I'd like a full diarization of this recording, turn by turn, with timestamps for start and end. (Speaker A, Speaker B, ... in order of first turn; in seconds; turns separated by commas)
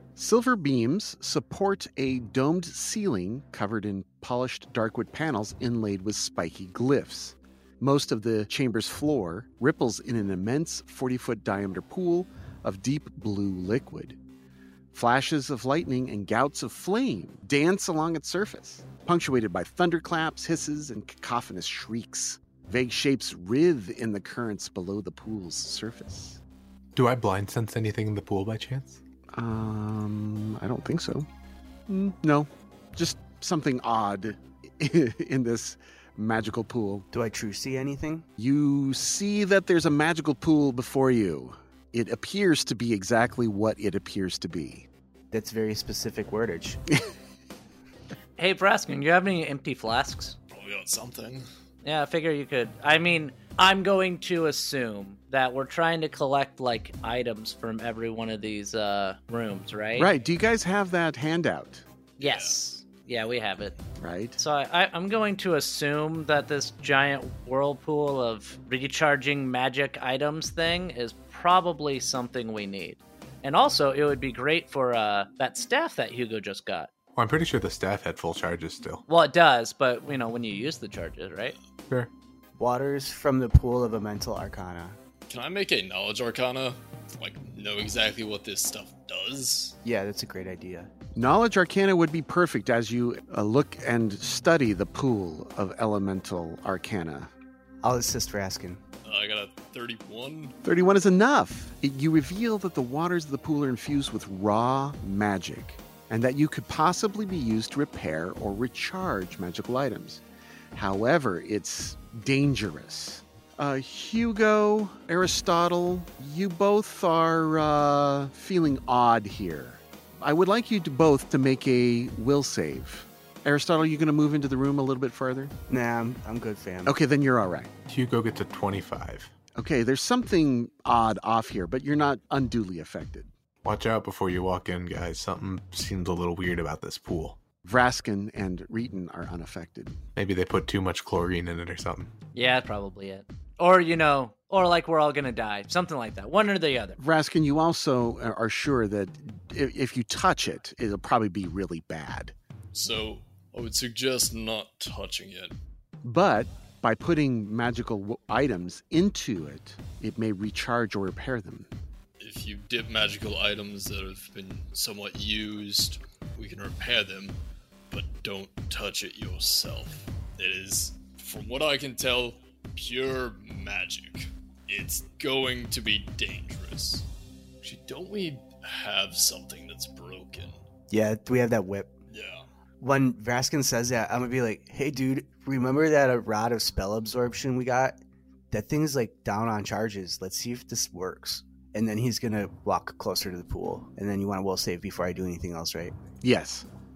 Speaker A: 0.1-14.2, Speaker A: 14.9-26.4, Speaker B: 26.9-29.0, Speaker A: 29.3-31.3, Speaker A: 31.9-37.1, Speaker C: 37.1-38.3, Speaker A: 38.4-44.9, Speaker C: 45.3-46.8, Speaker D: 48.4-50.4, Speaker E: 50.5-51.4, Speaker D: 51.8-60.1, Speaker A: 60.0-61.8, Speaker E: 62.2-62.5, Speaker D: 62.2-63.7, Speaker A: 64.0-64.4, Speaker D: 64.4-76.9, Speaker B: 77.2-79.0, Speaker D: 79.1-81.6, Speaker C: 82.6-85.0, Speaker E: 85.3-89.8, Speaker C: 89.8-90.9, Speaker A: 91.1-97.3, Speaker C: 97.8-98.8, Speaker E: 99.0-100.5, Speaker A: 100.6-110.2, Speaker A: 110.7-125.5, Speaker C: 125.7-127.0, Speaker A: 126.8-127.7, Speaker B: 127.9-129.3, Speaker A: 129.5-133.3, Speaker B: 133.6-137.4, Speaker A: 137.6-140.0, Speaker B: 140.2-142.1, Speaker D: 142.3-147.0, Speaker A: 147.0-152.3, Speaker E: 152.7-155.5, Speaker A: 156.0-161.7, Speaker E: 162.2-167.4, Speaker E: 167.9-177.1, Speaker E: 177.6-180.6, Speaker C: 180.9-181.9, Speaker E: 182.1-182.4, Speaker C: 182.8-188.0, Speaker C: 188.5-196.0, Speaker A: 196.2-196.7